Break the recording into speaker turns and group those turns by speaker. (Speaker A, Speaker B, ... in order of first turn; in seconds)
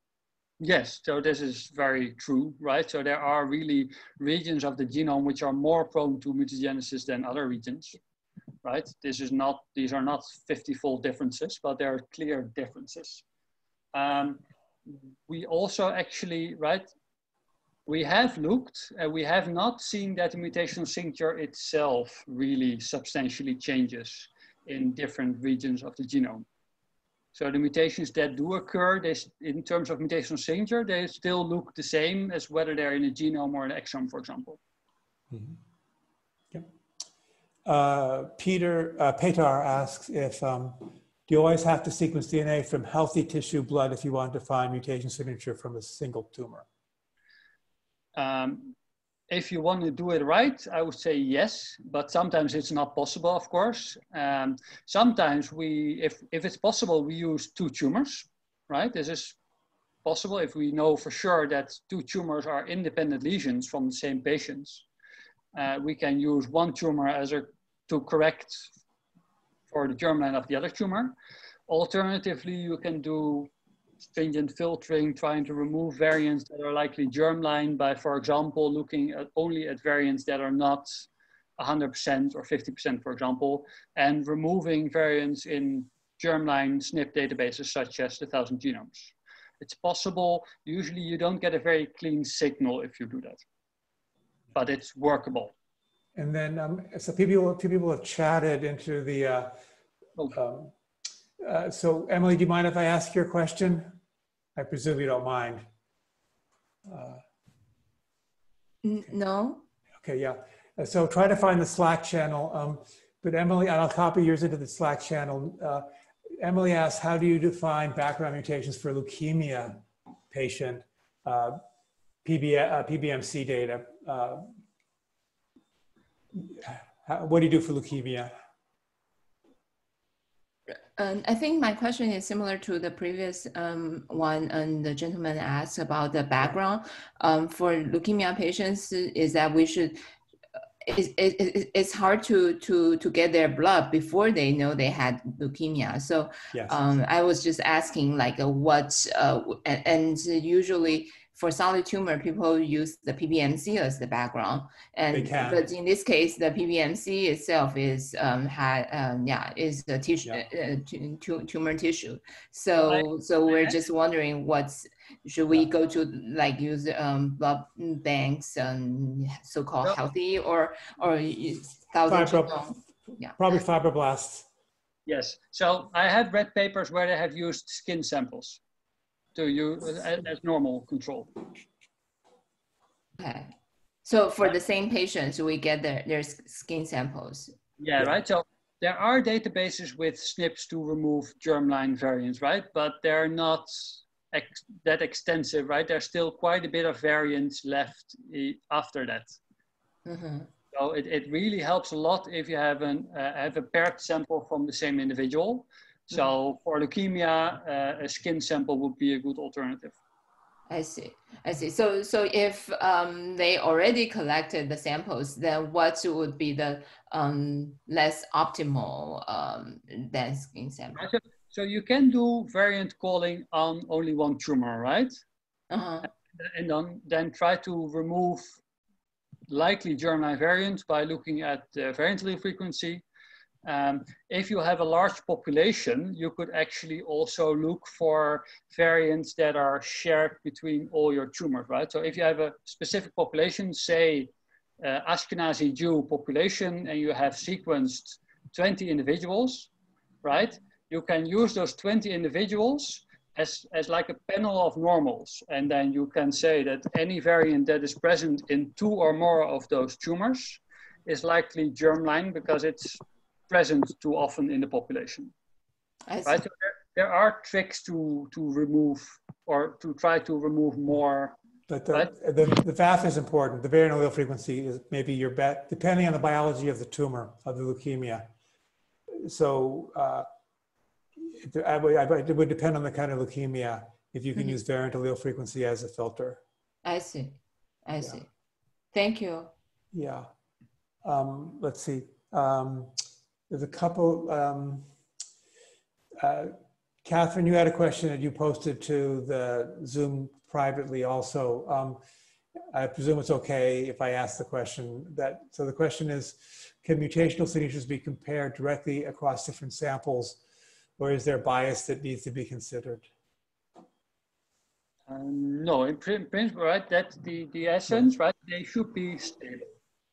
Speaker A: 0.6-8.0, 8.6-13.2, 13.9-16.9, 17.9-26.5, 27.3-34.6, 48.2-48.8, 49.3-59.4, 60.0-64.9, 65.5-68.7, 69.7-71.2, 71.7-73.5, 74.0-93.4, 94.5-95.5, 162.9-163.8, 175.1-178.6, 179.4-181.5, 187.8-199.4, 200.7-210.0, 220.9-225.2, 226.0-228.6, 229.5-233.0, 233.7-249.7, 250.2-265.3, 266.2-271.4, 315.1-319.7
Speaker B: 35.3-35.6, 37.7-46.7, 96.2-99.5, 100.3-100.7, 101.4-104.0, 104.6-105.7, 106.9-107.2, 110.0-115.9, 116.4-121.6, 122.2-124.5, 126.3-128.3, 146.5-146.8, 155.1-155.6, 172.1-172.8, 173.4-174.5, 271.7-278.3, 279.2-280.3, 281.2-286.4, 289.9-290.3, 291.0-293.0, 293.5-294.9, 296.2-302.0, 302.7-310.4, 311.0-313.1
Speaker C: 108.8-109.6, 131.0-140.0, 140.9-173.4, 183.2-183.5, 184.1-187.6, 200.1-200.5, 210.7-221.1, 225.7-226.1, 266.1-266.4, 286.9-288.3, 288.9-289.5